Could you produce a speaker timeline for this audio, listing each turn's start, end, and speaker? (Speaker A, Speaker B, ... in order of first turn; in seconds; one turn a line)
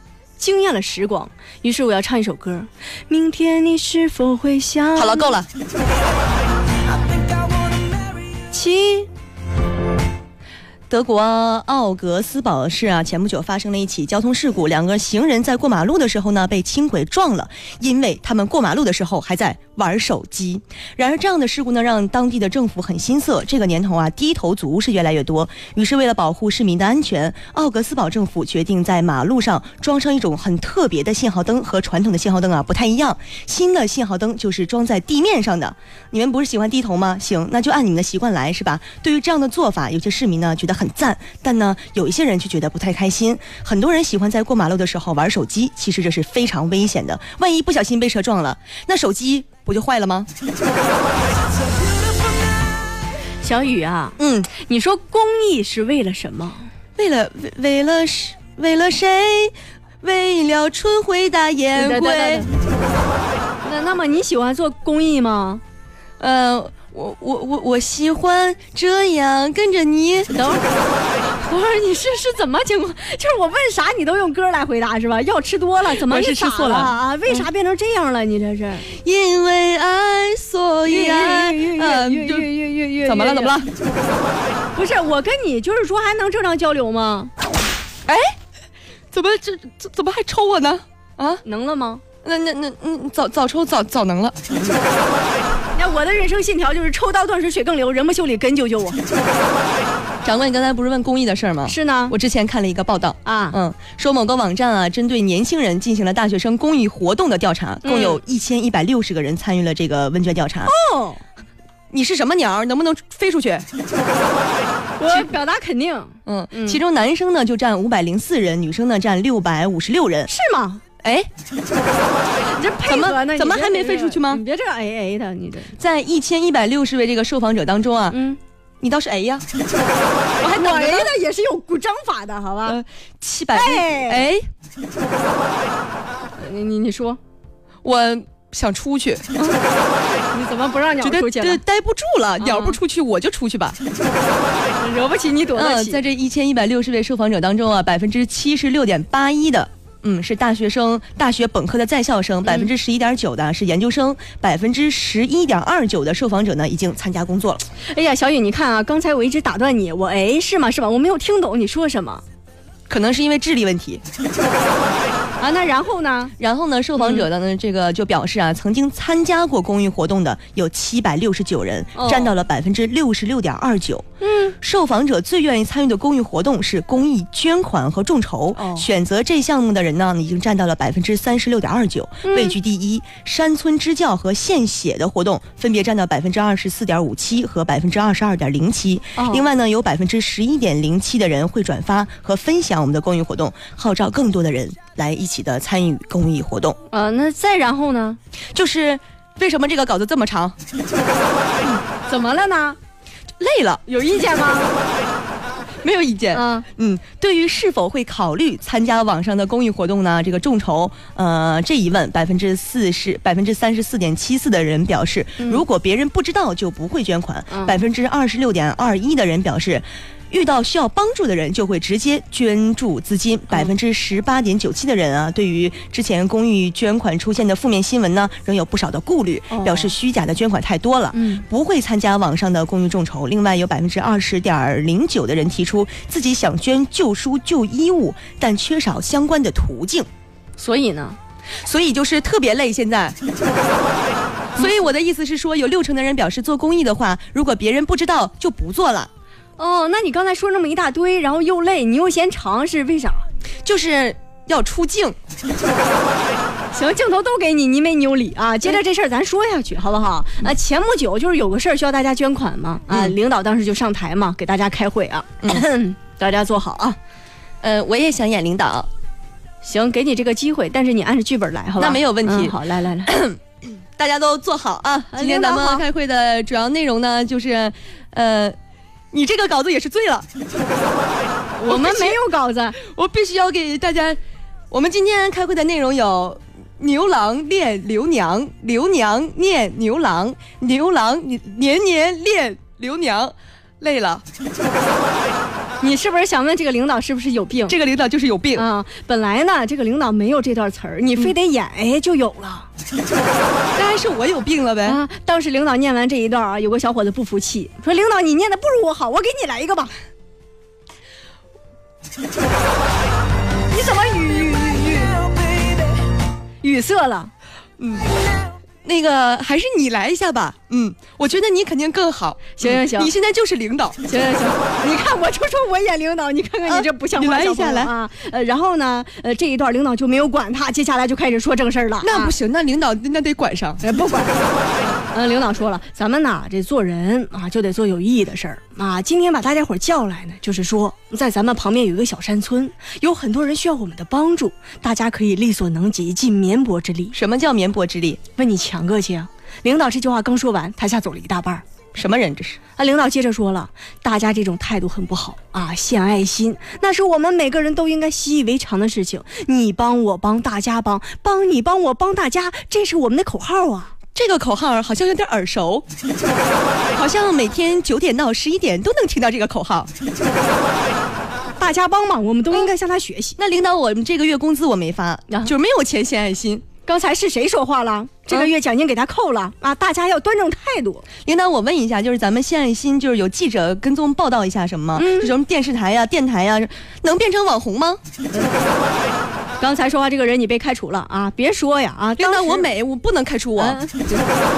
Speaker A: 0.4-5.3
Speaker B: 4.9-5.5
Speaker A: 8.5-9.1
Speaker B: 10.9-50.3
Speaker A: 53.4-56.7
Speaker B: 54.2-54.5
Speaker B: 57.0-62.5
Speaker A: 61.7-62.5
Speaker A: 63.6-65.6
Speaker B: 66.2-70.3
Speaker A: 70.3-78.9
Speaker B: 75.8-77.5
Speaker B: 78.9-82.5
Speaker A: 80.8-83.5
Speaker B: 83.0-83.7
Speaker A: 84.7-87.3
Speaker B: 88.1-88.3
Speaker B: 89.1-91.4
Speaker A: 91.4-92.0
Speaker B: 92.2-94.4
Speaker A: 94.5-94.8
Speaker A: 95.7-99.0
Speaker B: 100.2-110.7
Speaker A: 101.7-102.1
Speaker A: 103.2-103.6
Speaker A: 107.8-108.2
Speaker A: 110.7-111.2
Speaker B: 111.9-113.7
Speaker A: 115.0-116.8
Speaker B: 116.2-120.3
Speaker A: 120.2-120.8
Speaker B: 121.0-121.3
Speaker A: 122.4-125.8
Speaker B: 122.9-124.4
Speaker B: 125.8-128.2
Speaker A: 128.1-128.4
Speaker B: 128.8-129.4
Speaker B: 130.4-131.1
Speaker A: 130.4-132.8
Speaker B: 132.6-134.5
Speaker A: 133.5-134.3
Speaker A: 136.4-137.2
Speaker B: 137.8-139.2
Speaker A: 139.3-141.6
Speaker B: 141.0-143.8
Speaker A: 142.4-142.8
Speaker A: 144.8-146.0
Speaker B: 145.6-157.6
Speaker A: 157.8-162.2
Speaker B: 162.9-164.0
Speaker A: 165.4-166.3
Speaker B: 166.4-174.0
Speaker A: 167.0-167.3
Speaker A: 171.9-172.3
Speaker A: 174.2-174.6
Speaker B: 174.6-196.8
Speaker A: 178.6-178.8
Speaker A: 182.2-182.6
Speaker A: 189.2-189.5
Speaker A: 196.9-198.2
Speaker B: 198.5-200.5
Speaker A: 201.6-202.8
Speaker B: 203.4-203.8
Speaker A: 203.8-204.8
Speaker B: 205.8-240.1
Speaker A: 206.3-206.7
Speaker A: 217.5-217.8
Speaker A: 229.5-229.9
Speaker A: 231.1-231.4
Speaker A: 240.6-241.2
Speaker B: 241.6-243.2
Speaker B: 244.5-249.1
Speaker A: 244.6-244.9
Speaker A: 249.6-253.2
Speaker B: 253.6-255.2
Speaker A: 256.7-267.0
Speaker B: 262.9-263.1
Speaker B: 267.6-268.9
Speaker A: 269.6-273.1
Speaker B: 271.8-273.4
Speaker B: 273.9-278.6
Speaker A: 275.1-275.8
Speaker B: 279.1-280.3
Speaker A: 281.6-282.8
Speaker B: 281.6-282.2
Speaker B: 282.8-284.2
Speaker B: 284.7-294.2
Speaker A: 295.8-297.7
Speaker B: 297.7-298.6
Speaker A: 298.5-302.7
Speaker B: 303.7-305.0
Speaker A: 304.8-309.9
Speaker A: 313.7-315.3
Speaker A: 316.6-317.3
Speaker B: 317.8-318.1
Speaker B: 318.8-324.0
Speaker A: 322.6-323.1
Speaker A: 324.0-332.3
Speaker B: 326.6-327.9
Speaker B: 332.0-333.8
Speaker A: 333.8-334.4
Speaker A: 335.1-347.1
Speaker B: 347.1-348.2
Speaker A: 348.4-351.6
Speaker B: 351.9-352.6
Speaker A: 352.8-363.9
Speaker B: 364.1-365.8
Speaker B: 366.9-369.9
Speaker A: 371.6-373.4
Speaker B: 373.4-376.6
Speaker A: 376.9-381.1
Speaker B: 381.2-388.0
Speaker A: 384.9-385.3
Speaker A: 389.6-392.7
Speaker B: 392.2-393.8
Speaker A: 393.6-394.3